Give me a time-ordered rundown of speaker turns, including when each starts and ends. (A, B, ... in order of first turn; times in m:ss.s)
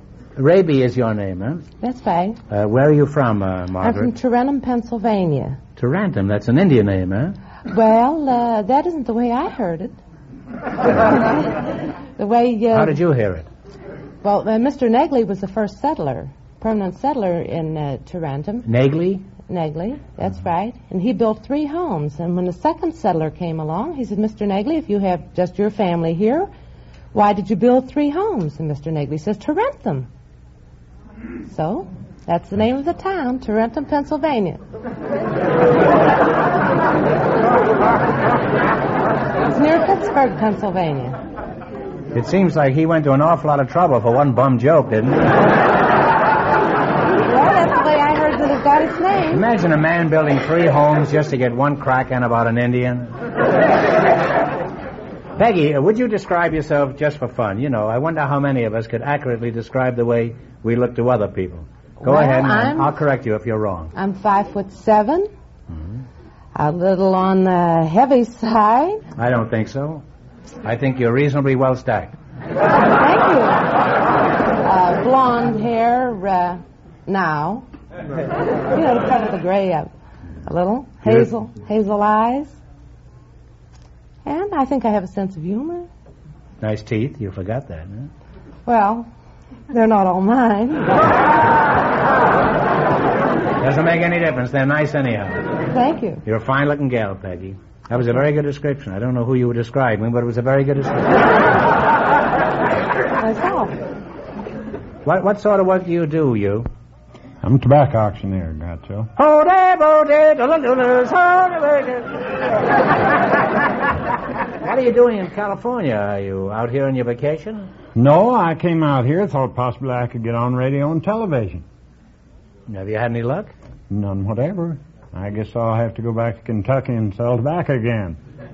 0:00.4-0:01.7 A
0:01.8-0:02.4 B
0:02.5-0:04.1 A
0:03.8-0:05.6 B
0:05.8-0:07.4 A
0:07.7-0:10.0 B
0:11.0-0:11.6 B
0:12.2-0:13.0 B
0:12.7-0:13.5 A
0:14.2-0:18.7 B
0:18.6-0:19.3 A
0:19.4-0:26.5 B
0:27.1-0:30.1 B
0:31.4-0:34.6 B
0:39.4-0:41.2 B
0:42.1-0:45.2 A
0:47.2-0:49.4 B
0:49.3-0:53.1 A
0:55.4-1:03.9 A
1:02.0-1:03.0 B
1:03.9-1:05.3 B
1:05.7-1:06.0 A
1:06.6-1:09.0 B
1:09.2-1:10.0 A
1:10.6-1:12.1 A
1:12.9-1:13.7 B
1:14.6-1:17.7 B
1:18.7-1:19.9 B
1:20.4-1:22.6 B
1:24.2-1:25.9 B
1:26.6-1:28.1 A
1:28.7-1:29.1 B
1:29.7-1:31.2 B
1:33.6-1:35.5 A
1:35.6-1:36.2 B
1:36.2-1:41.3 A
1:43.2-1:43.8 B
1:45.0-1:46.7 A
1:47.4-1:49.1 C
1:49.2-1:52.1 A
1:54.6-1:57.7 A
1:58.0-2:01.6 C
2:02.7-2:03.5 A
2:03.9-2:08.2 C